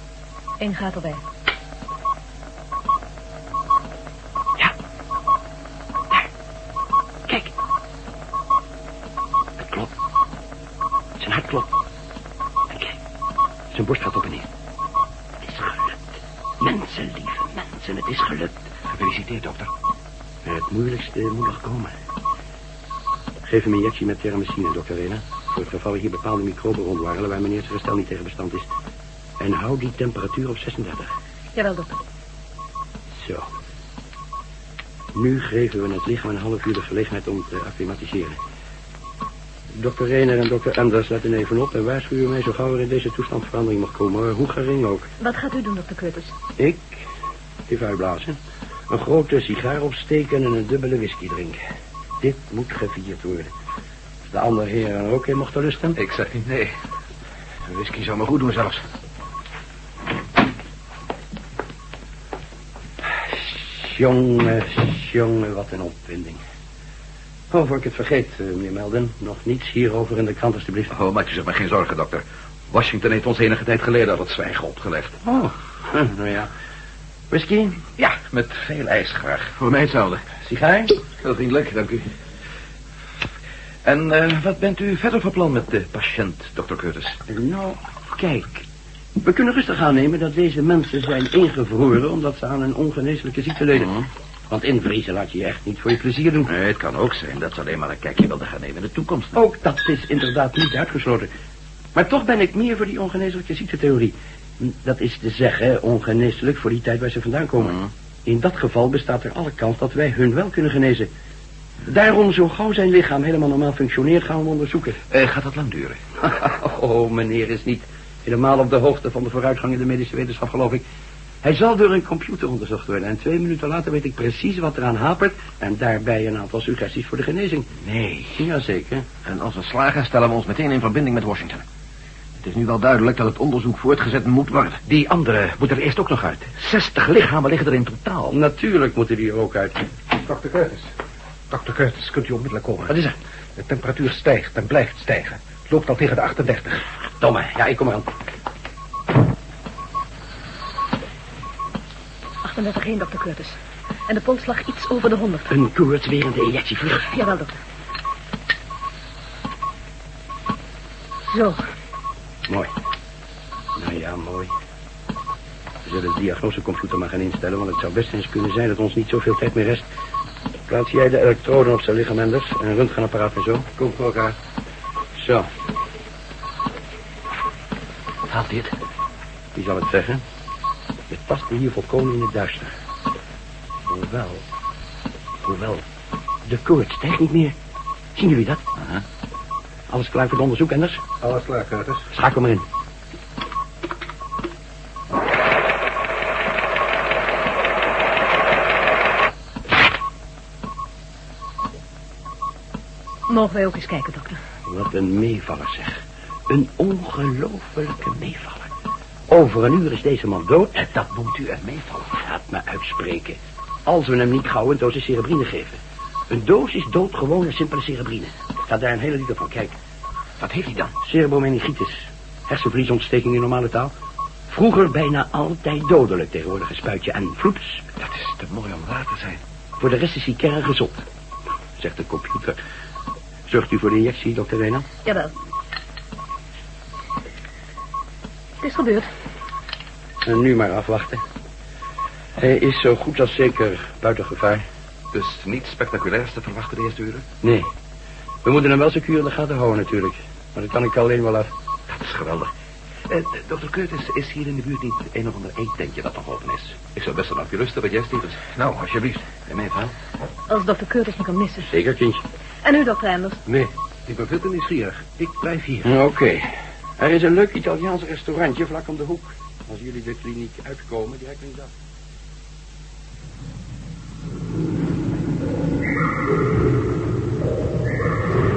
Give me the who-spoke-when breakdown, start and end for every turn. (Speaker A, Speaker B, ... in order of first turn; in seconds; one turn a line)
Speaker A: 0.6-1.2
Speaker B: 9.6-9.9
Speaker B: 11.2-11.7
Speaker B: 12.7-13.0
Speaker B: 13.7-14.5
Speaker B: 15.4-16.0
Speaker B: 16.6-18.5
Speaker C: 18.9-19.7
Speaker B: 20.4-21.9
Speaker B: 23.4-28.7
Speaker B: 29.4-31.1
Speaker A: 31.6-32.0
Speaker B: 33.2-33.5
Speaker B: 35.1-38.4
Speaker B: 39.8-45.1
Speaker A: 45.2-46.3
Speaker B: 46.6-47.1
Speaker B: 47.7-48.4
Speaker B: 48.9-51.6
Speaker B: 52.2-53.5
Speaker B: 54.3-56.0
Speaker C: 56.0-56.7
Speaker D: 57.7-58.3
Speaker C: 57.8-58.7
Speaker B: 63.2-66.4
Speaker B: 67.5-70.9
Speaker C: 70.9-75.2
Speaker B: 75.2-76.5
Speaker B: 77.3-77.8
Speaker C: 78.0-80.2
Speaker B: 80.4-81.0
Speaker C: 81.2-82.1
Speaker C: 83.8-87.2
Speaker B: 87.3-88.7
Speaker B: 89.2-94.0
Speaker C: 93.8-94.1
Speaker B: 94.5-96.5
Speaker C: 96.5-99.4
Speaker B: 99.3-101.3
Speaker B: 102.0-111.1
Speaker B: 111.8-115.0
Speaker C: 115.1-116.0
Speaker B: 116.2-120.8
Speaker B: 121.4-127.7
Speaker C: 127.8-128.4
Speaker B: 128.3-129.1
Speaker D: 129.3-131.6
Speaker D: 132.4-134.8
Speaker C: 134.9-138.4
Speaker B: 138.3-139.8
Speaker E: 140.2-140.9
Speaker E: 141.5-142.9
Speaker B: 142.9-143.2
Speaker E: 143.6-146.8
Speaker B: 147.2-148.1
Speaker A: 152.4-155.6
Speaker B: 155.5-157.1
Speaker A: 157.1-157.6
Speaker A: 161.3-161.6
Speaker B: 163.8-164.5
Speaker B: 165.8-169.9
Speaker B: 170.7-173.7
Speaker E: 173.8-174.4
Speaker B: 175.2-175.5
Speaker C: 178.3-178.7
Speaker B: 179.6-180.2
Speaker B: 181.1-182.7
Speaker B: 183.9-184.4
Speaker B: 185.4-185.8
Speaker B: 186.5-187.6
Speaker B: 188.2-188.6
Speaker C: 188.8-189.0
Speaker B: 189.9-191.0
Speaker E: 191.2-192.1
Speaker B: 192.1-192.7
Speaker A: 203.3-204.4
Speaker B: 204.7-208.7
Speaker B: 209.3-210.7
Speaker C: 210.7-212.2
Speaker B: 212.1-219.7
Speaker C: 220.4-220.9
Speaker B: 221.0-223.9
Speaker B: 224.5-227.8
Speaker C: 228.0-229.4
Speaker B: 229.8-231.1
Speaker B: 231.8-232.6
Speaker B: 233.5-234.9
Speaker A: 235.0-235.3
Speaker A: 238.6-239.1
Speaker B: 240.2-241.2
Speaker B: 242.4-244.6
Speaker C: 245.1-247.2
Speaker B: 247.4-247.7
Speaker B: 248.4-251.5
Speaker C: 251.9-252.5
Speaker C: 253.1-259.9
Speaker A: 260.5-261.7
Speaker B: 261.7-262.2
Speaker A: 262.6-263.4
Speaker E: 263.5-265.9
Speaker B: 265.9-271.7